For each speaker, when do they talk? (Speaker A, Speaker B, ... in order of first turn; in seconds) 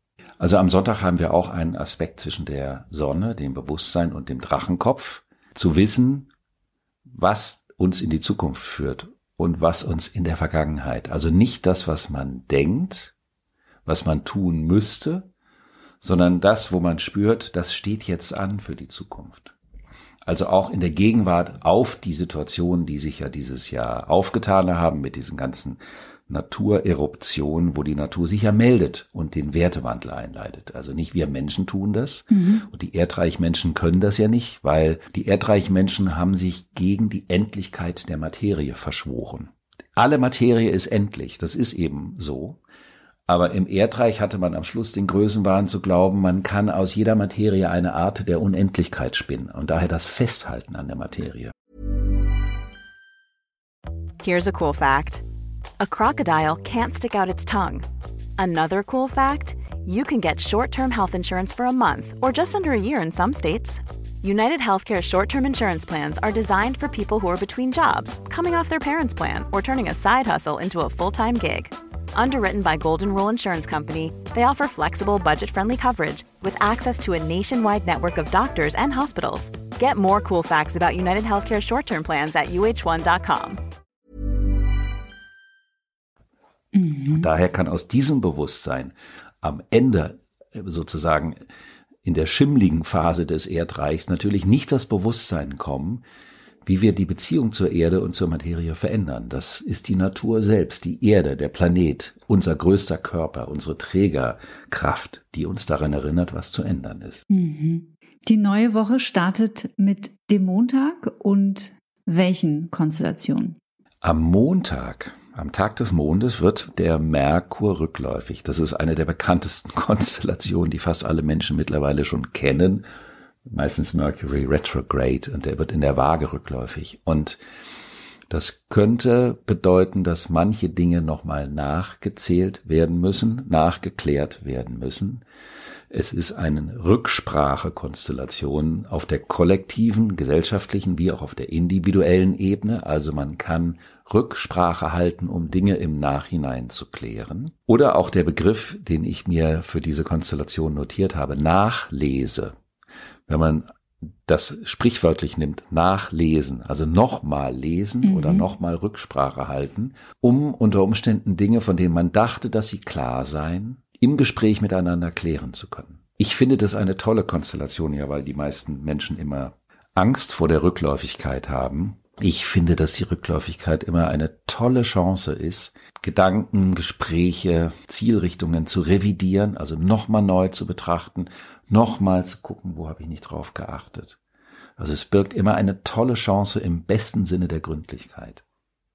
Speaker A: 0.4-6.3, 7.1-13.1, 13.9-15.3, 16.0-19.6, 20.2-42.6, 43.3-51.5, 87.1-91.4, 92.0-96.0, 96.6-107.2, 114.0-122.8, 123.5-127.4, 128.3-135.2, 135.9-152.6, 153.3-184.2, 184.8-188.4
Speaker B: 32.3-32.7, 86.7-87.3, 107.3-113.6, 158.0-158.5
Speaker C: 54.2-55.2, 55.8-57.9, 58.4-83.6